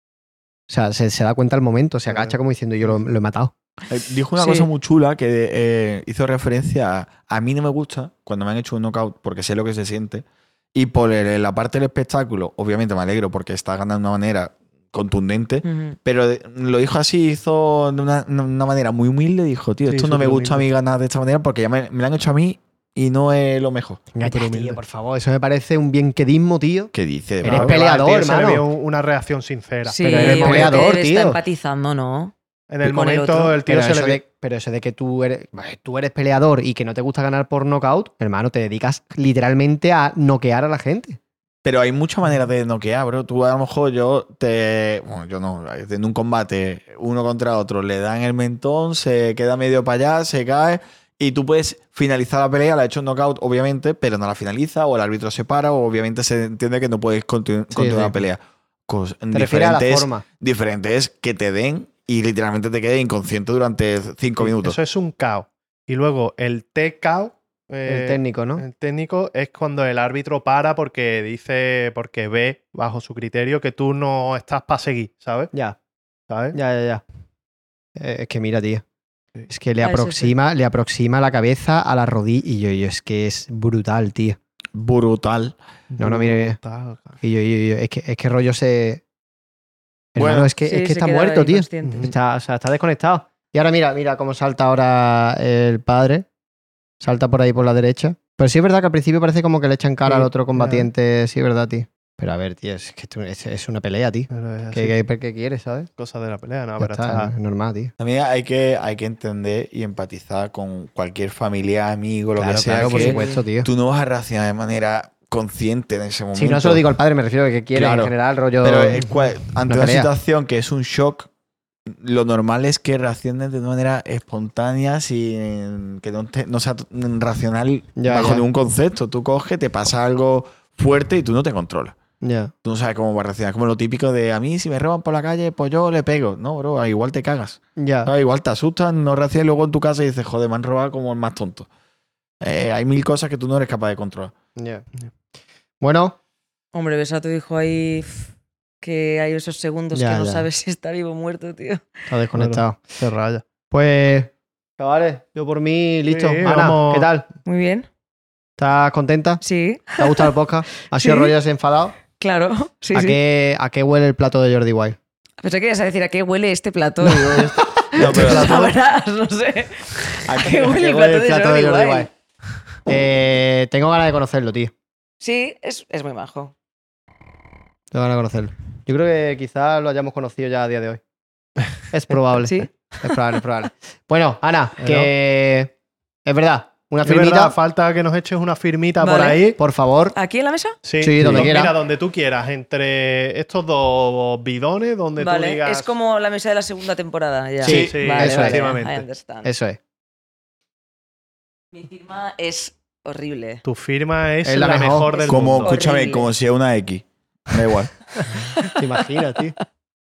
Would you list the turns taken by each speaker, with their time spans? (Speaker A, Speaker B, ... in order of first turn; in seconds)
Speaker A: 0.7-3.5, 24.1-28.6, 30.0-31.4, 33.6-41.2, 57.7-58.2, 59.3-60.2, 67.8-68.6, 76.5-77.0, 78.0-78.8, 79.5-84.4, 86.0-86.6, 87.2-89.0, 90.1-96.3, 97.0-105.9, 106.8-107.9, 112.4-113.7, 116.3-119.0, 119.7-120.1, 128.0-128.4, 132.2-132.5, 137.8-138.1, 144.6-144.8, 145.8-146.2, 149.9-150.4, 152.1-153.0, 153.7-157.2, 158.6-159.4, 160.0-162.0, 162.9-165.0, 167.2-168.7, 170.6-172.1, 172.8-174.7, 177.9-181.0, 181.9-185.7, 186.2-187.6, 189.6-190.1, 191.0-191.8, 197.6-198.7, 199.4-199.8, 204.4-205.1, 208.7-209.6
Speaker B: 2.1-3.0, 19.9-20.6, 24.2-24.8, 27.4-30.9, 32.7-34.2, 64.4-75.5, 76.3-76.6, 85.9-87.2, 91.8-92.1, 100.0-100.9, 104.3-105.0, 106.0-107.3, 152.4-153.4, 156.1-157.1, 184.8-185.1, 187.0-189.6, 190.8-195.9, 197.7-199.0, 203.6-205.8
Speaker C: 3.9-24.1, 26.9-27.8, 41.6-64.8, 84.7-85.5, 90.2-90.5, 108.0-116.8, 117.7-121.3, 121.9-132.0, 132.6-141.7, 142.4-144.3, 167.9-168.5, 170.3-170.5, 197.7-198.0, 205.3-207.9
Speaker D: 4.4-4.7, 15.6-15.9, 29.9-33.6, 79.8-80.3, 90.6-92.1, 112.8-113.4, 146.7-148.3, 148.8-152.1, 157.4-157.9, 159.4-160.3, 160.9-161.3, 162.2-163.2, 165.4-172.1, 175.2-176.5, 182.4-183.2, 189.0-189.5, 190.1-190.8, 195.2-199.5, 201.7-203.6, 205.1-206.3, 208.2-208.8